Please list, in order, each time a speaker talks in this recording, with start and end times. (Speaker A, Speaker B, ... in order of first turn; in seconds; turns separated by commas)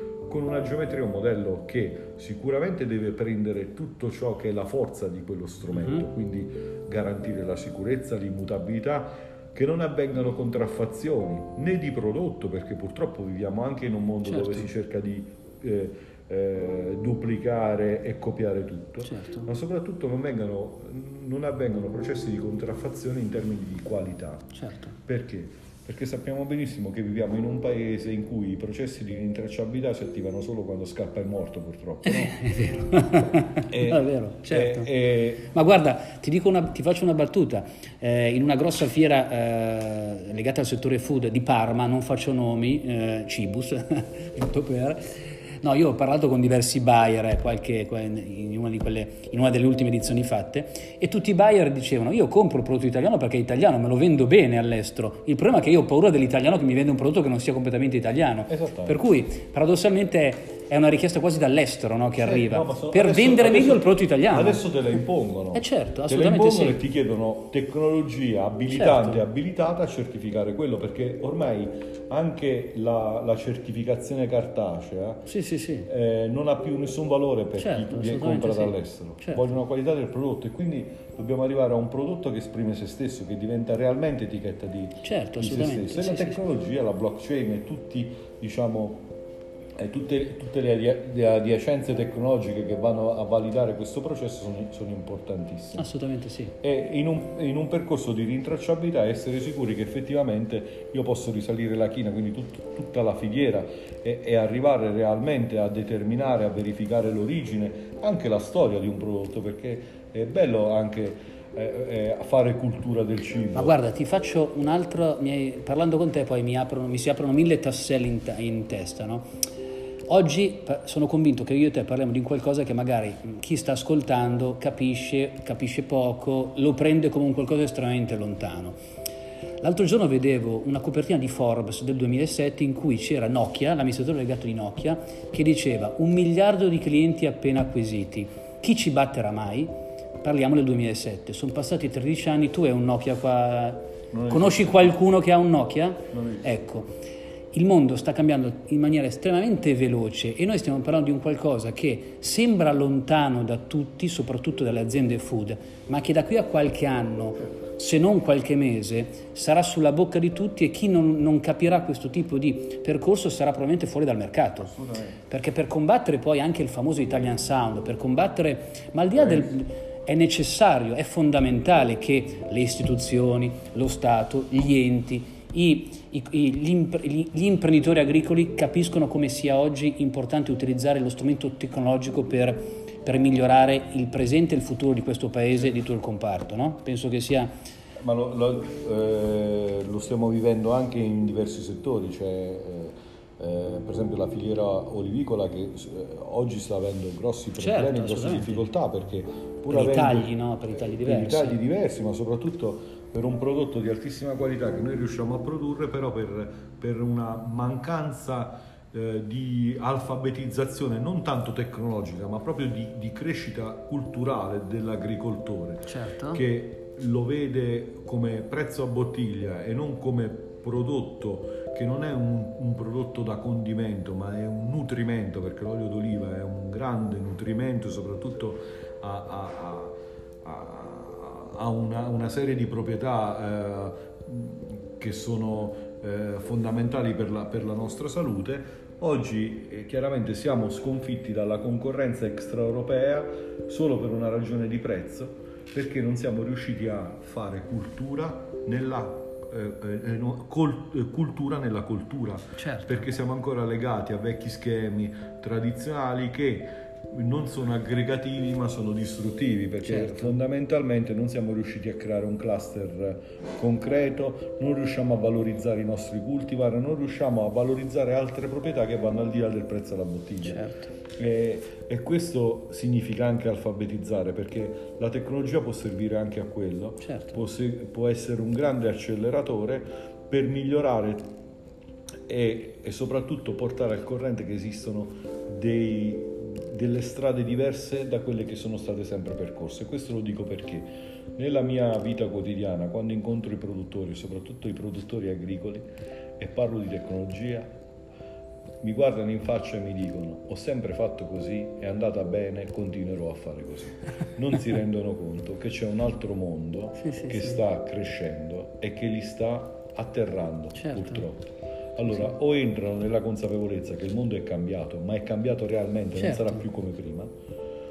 Speaker A: 0.3-24.5, Speaker B: 5.7-6.0, Speaker B: 14.2-14.7, Speaker B: 19.0-19.5, Speaker B: 24.5-24.9, Speaker A: 25.1-32.3, Speaker B: 32.0-64.7, Speaker A: 33.7-35.5, Speaker A: 58.5-59.0, Speaker A: 62.2-75.3, Speaker B: 65.5-66.8, Speaker B: 68.7-69.2, Speaker B: 75.2-75.9, Speaker A: 75.9-89.0, Speaker B: 77.6-79.5, Speaker B: 85.0-86.4, Speaker A: 89.8-95.9, Speaker B: 95.7-96.5, Speaker A: 96.6-113.8, Speaker B: 113.5-119.3, Speaker B: 120.1-128.8, Speaker B: 129.6-146.9, Speaker A: 144.1-145.0, Speaker A: 146.1-146.6, Speaker B: 147.5-164.7, Speaker A: 164.6-165.2, Speaker B: 165.3-187.5, Speaker A: 169.2-169.5, Speaker A: 188.0-270.6, Speaker B: 197.6-198.7, Speaker B: 199.7-201.6, Speaker B: 215.9-216.4, Speaker B: 252.6-253.1, Speaker B: 259.8-260.4, Speaker B: 270.4-270.9, Speaker A: 271.2-281.3, Speaker B: 277.0-277.4, Speaker A: 282.3-295.8, Speaker A: 296.4-297.7, Speaker A: 298.8-317.3, Speaker B: 307.0-307.6, Speaker B: 310.7-311.2, Speaker B: 316.1-316.6